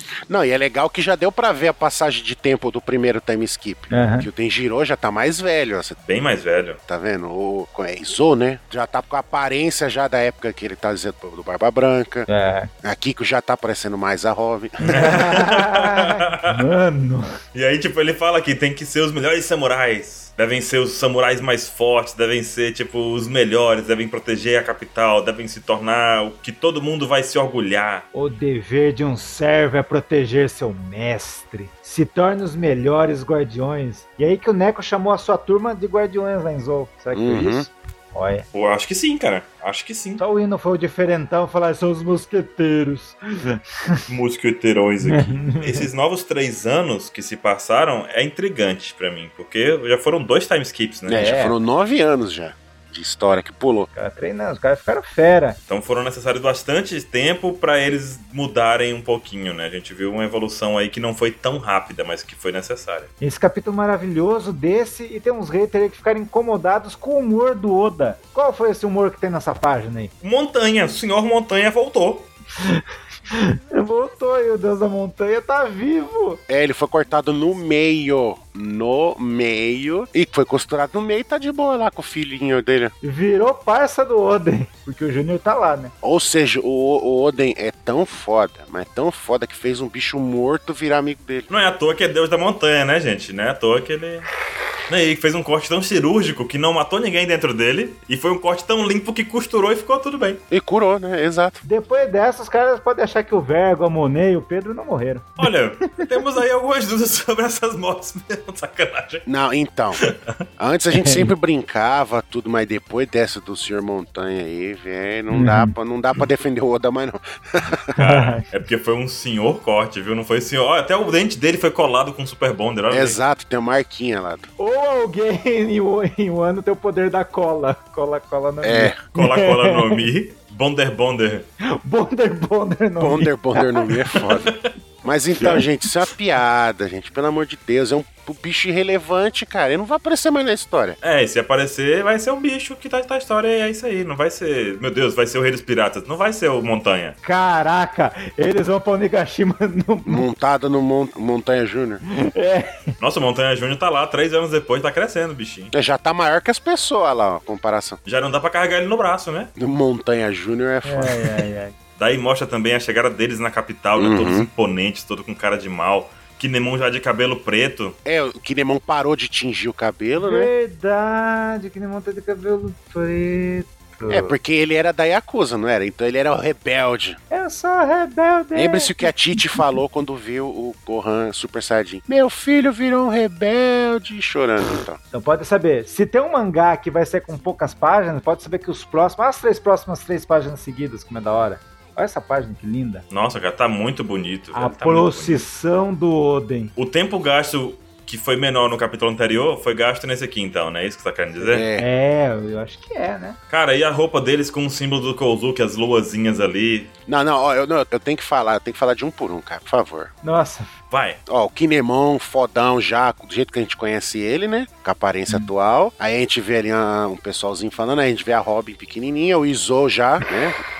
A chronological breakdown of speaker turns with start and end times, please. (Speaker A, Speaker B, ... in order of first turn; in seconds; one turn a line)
Speaker A: 0.3-6.0
Speaker B: 3.9-4.3
Speaker C: 6.0-6.8
Speaker A: 6.9-12.3
Speaker B: 12.3-12.7
Speaker A: 12.8-15.0
Speaker B: 14.8-17.2
Speaker C: 14.9-16.6
Speaker C: 17.5-28.1
Speaker B: 28.1-38.5
Speaker A: 37.1-37.7
Speaker C: 38.5-40.2
Speaker B: 40.2-44.0
Speaker C: 44.1-51.3
Speaker B: 45.0-45.9
Speaker A: 51.1-53.9
Speaker B: 51.1-51.5
Speaker B: 53.9-55.6
Speaker C: 55.7-63.1
Speaker B: 63.2-70.1
Speaker C: 70.2-72.3
Speaker B: 72.6-76.4
Speaker A: 76.5-82.9
Speaker B: 83.0-85.9
Speaker A: 86.0-91.5
Speaker C: 91.5-94.3
Speaker C: 94.9-100.4
Speaker A: 100.5-101.6
Speaker B: 101.6-106.0
Speaker C: 105.4-109.2
Speaker A: 109.2-110.0
Speaker A: 110.6-117.8
Speaker B: 110.9-111.3
Speaker B: 115.3-115.7
Speaker B: 117.9-118.4
Speaker C: 118.0-123.2
Speaker A: 122.9-124.5
Speaker B: 124.6-130.0
Speaker A: 128.6-129.0
Speaker C: 129.1-131.5
Speaker B: 131.7-133.9
Speaker A: 133.0-141.0
Speaker C: 134.2-134.7
Speaker C: 141.0-147.2
Speaker B: 147.2-150.2
Speaker A: 150.1-152.0
Speaker B: 152.1-152.8
Speaker C: 153.0-155.7
Speaker A: 155.7-158.0
Speaker C: 158.0-159.5
Speaker A: 159.6-161.4
Speaker B: 160.8-161.7
Speaker C: 162.0-167.9
Speaker A: 164.0-164.5
Speaker A: 168.0-170.5
Speaker B: 170.2-174.3
Speaker A: 174.1-177.2
Speaker B: 177.3-179.8
Speaker A: 178.5-185.0
Speaker B: 185.1-193.0
Speaker C: 193.1-195.4
Speaker B: 194.5-196.7
Speaker C: 196.8-201.6
Speaker A: 201.4-201.9
Speaker B: 201.8-203.4
Speaker C: 203.5-206.9
Speaker A: 207.1-210.1
Speaker B: 210.2-210.8
Speaker C: 210.9-211.2
Speaker A: 211.3-220.6